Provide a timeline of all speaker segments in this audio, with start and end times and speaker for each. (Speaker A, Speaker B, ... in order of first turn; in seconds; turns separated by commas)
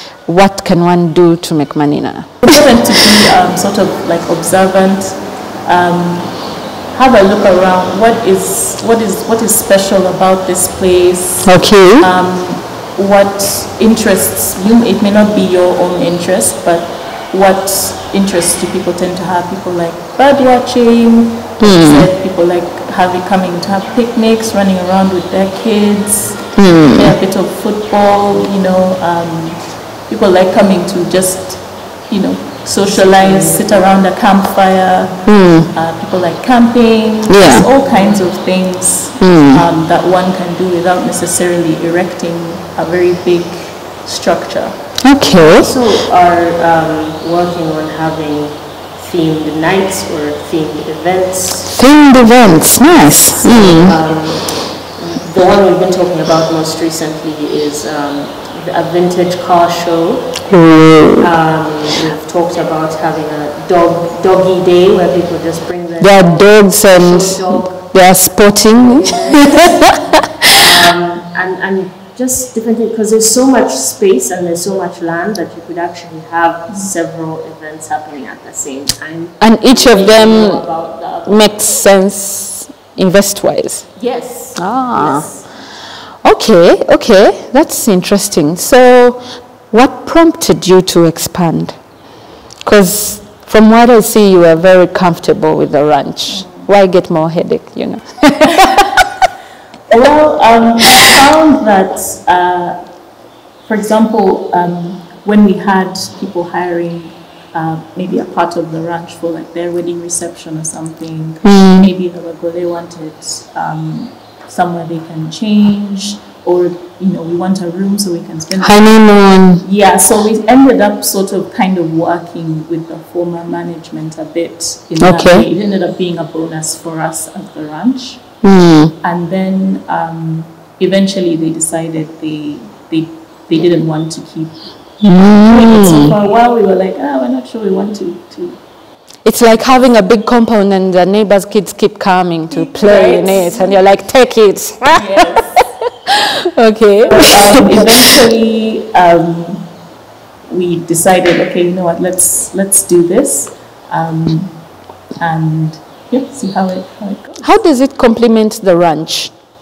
Speaker A: 0.3-2.6, Speaker B: 2.5-44.8, Speaker A: 11.4-12.1, Speaker A: 21.6-22.1, Speaker A: 26.6-27.1, Speaker C: 33.0-33.7, Speaker A: 35.3-35.7, Speaker A: 37.3-37.7, Speaker C: 37.8-38.2, Speaker A: 39.2-39.6, Speaker A: 45.0-45.7, Speaker C: 45.4-51.8, Speaker A: 51.7-54.0, Speaker C: 53.0-60.5, Speaker A: 60.5-61.3, Speaker C: 61.2-67.9, Speaker A: 66.0-70.5, Speaker C: 68.8-81.5, Speaker A: 79.4-80.7, Speaker A: 81.2-83.9, Speaker C: 84.0-85.4, Speaker A: 84.6-85.3, Speaker A: 86.2-91.8, Speaker A: 92.7-98.9, Speaker B: 96.4-96.6, Speaker B: 99.9-102.8, Speaker B: 103.7-119.0, Speaker A: 111.4-111.9, Speaker A: 118.6-119.6, Speaker B: 119.6-128.2, Speaker A: 125.0-125.5, Speaker A: 128.4-128.9, Speaker B: 129.0-134.7, Speaker A: 135.0-136.2, Speaker B: 135.4-138.6, Speaker A: 139.2-145.4, Speaker B: 142.6-143.8, Speaker C: 142.8-143.5, Speaker B: 144.9-145.7, Speaker A: 146.1-148.1, Speaker B: 147.0-149.7, Speaker B: 150.5-154.5, Speaker B: 155.2-157.5, Speaker A: 157.4-159.3